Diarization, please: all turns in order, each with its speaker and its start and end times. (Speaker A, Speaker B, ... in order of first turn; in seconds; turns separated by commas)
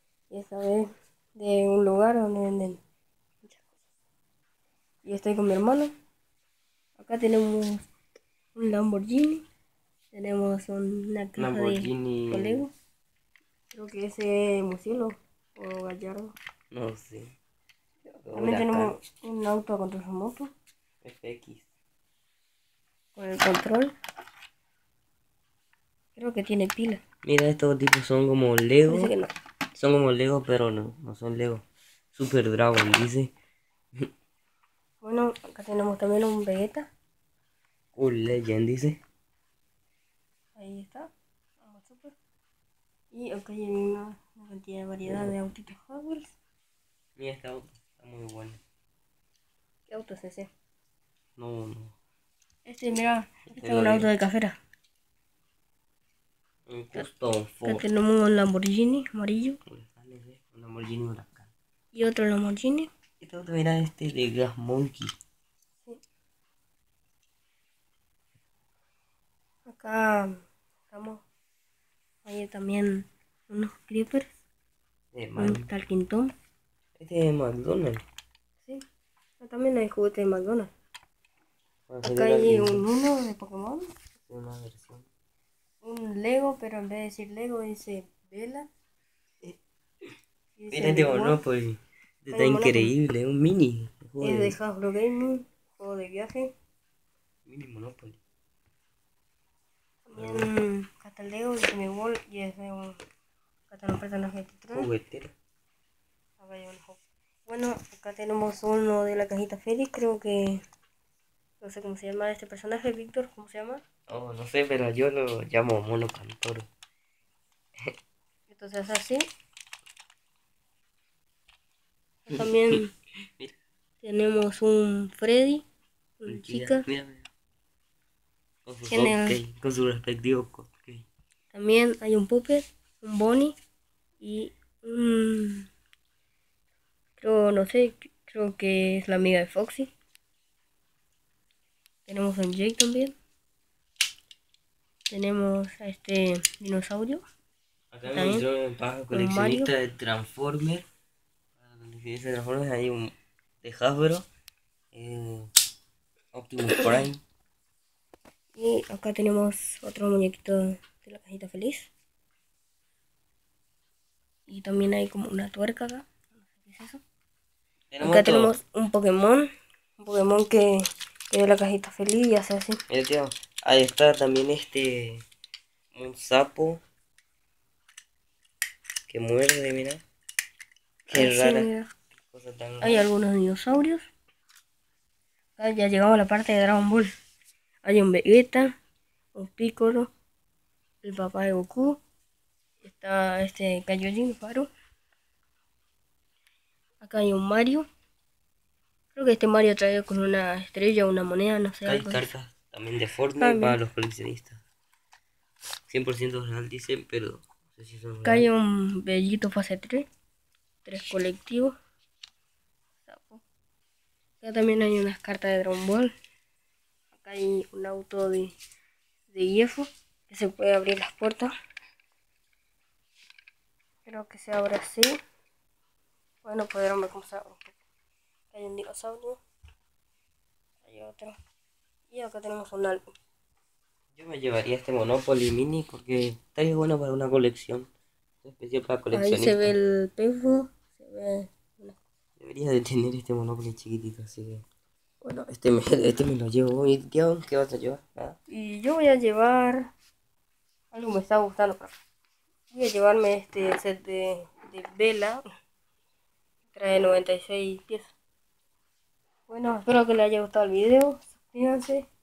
Speaker A: 0.3-0.8, Speaker A: 1.4-2.8, Speaker A: 5.0-5.9, Speaker A: 7.0-7.7, Speaker A: 8.5-9.4, Speaker A: 10.1-12.7, Speaker B: 11.4-12.6, Speaker A: 13.7-16.3, Speaker B: 16.7-17.3, Speaker B: 18.1-19.0, Speaker A: 18.4-20.5, Speaker B: 21.0-21.7, Speaker A: 23.1-23.9, Speaker A: 26.1-27.0, Speaker B: 27.2-29.1, Speaker A: 28.9-29.3, Speaker B: 29.7-31.6, Speaker B: 32.1-33.3, Speaker A: 35.0-36.8, Speaker B: 37.9-39.0, Speaker A: 40.5-41.1, Speaker A: 41.6-42.1, Speaker A: 43.1-46.3, Speaker B: 45.1-45.3, Speaker B: 47.2-48.6, Speaker A: 49.9-50.5, Speaker B: 51.4-51.9, Speaker A: 52.7-54.5, Speaker B: 53.5-54.1, Speaker B: 56.7-57.8, Speaker A: 57.6-59.6, Speaker B: 59.6-61.5, Speaker A: 61.9-62.9, Speaker B: 63.2-65.1, Speaker A: 69.7-70.3, Speaker A: 70.9-71.2, Speaker A: 72.2-74.3, Speaker B: 75.1-75.7, Speaker A: 75.4-76.3, Speaker B: 77.0-78.0, Speaker A: 79.4-80.7, Speaker B: 81.9-82.8, Speaker A: 82.0-83.8, Speaker B: 84.3-85.1, Speaker A: 85.8-88.6, Speaker A: 90.6-91.4, Speaker B: 90.7-94.6, Speaker A: 92.3-92.9, Speaker A: 94.2-96.5, Speaker B: 97.5-98.2, Speaker A: 100.1-103.0, Speaker B: 100.2-100.5, Speaker A: 103.7-104.9, Speaker B: 104.7-105.3, Speaker A: 106.4-110.6, Speaker A: 111.6-113.8, Speaker B: 114.1-116.7, Speaker A: 118.5-119.2, Speaker A: 122.3-122.9, Speaker B: 122.3-122.8, Speaker A: 124.0-125.6, Speaker A: 126.2-126.8, Speaker B: 126.3-127.3, Speaker B: 128.7-131.0, Speaker A: 128.9-129.4, Speaker A: 131.5-133.5, Speaker A: 134.2-135.7, Speaker A: 137.2-139.9, Speaker A: 142.1-143.1, Speaker A: 145.1-147.2, Speaker B: 147.9-150.8, Speaker A: 148.1-148.4, Speaker A: 149.1-149.7, Speaker B: 151.6-154.2, Speaker B: 154.9-155.5, Speaker B: 156.3-157.2, Speaker A: 158.6-161.9, Speaker A: 164.5-167.0, Speaker B: 167.9-168.5, Speaker A: 168.0-169.5, Speaker A: 170.0-170.7, Speaker A: 171.3-172.8, Speaker B: 172.9-175.2, Speaker B: 175.9-176.8, Speaker B: 179.1-180.0, Speaker B: 181.1-181.7, Speaker A: 181.1-181.9, Speaker B: 182.2-183.1, Speaker A: 182.8-184.1, Speaker A: 185.6-187.1, Speaker A: 187.8-188.7, Speaker A: 189.3-190.1, Speaker A: 191.0-192.0, Speaker A: 192.8-194.7, Speaker A: 197.0-197.8, Speaker A: 199.1-202.3, Speaker B: 201.8-204.6, Speaker A: 203.4-203.8, Speaker B: 205.9-208.4, Speaker A: 208.2-210.1, Speaker A: 210.8-211.7, Speaker A: 213.1-213.4, Speaker A: 214.4-216.1, Speaker A: 217.1-218.5, Speaker A: 219.3-221.5, Speaker A: 224.0-225.1, Speaker A: 226.4-227.7, Speaker A: 228.5-229.4, Speaker A: 230.8-231.3, Speaker A: 232.1-233.0, Speaker B: 234.1-237.9, Speaker B: 238.4-239.7, Speaker A: 239.1-242.0, Speaker B: 242.4-244.6, Speaker B: 245.4-248.4, Speaker A: 248.5-249.8, Speaker A: 250.9-251.9, Speaker A: 252.7-255.4, Speaker A: 256.7-258.1, Speaker A: 259.5-262.0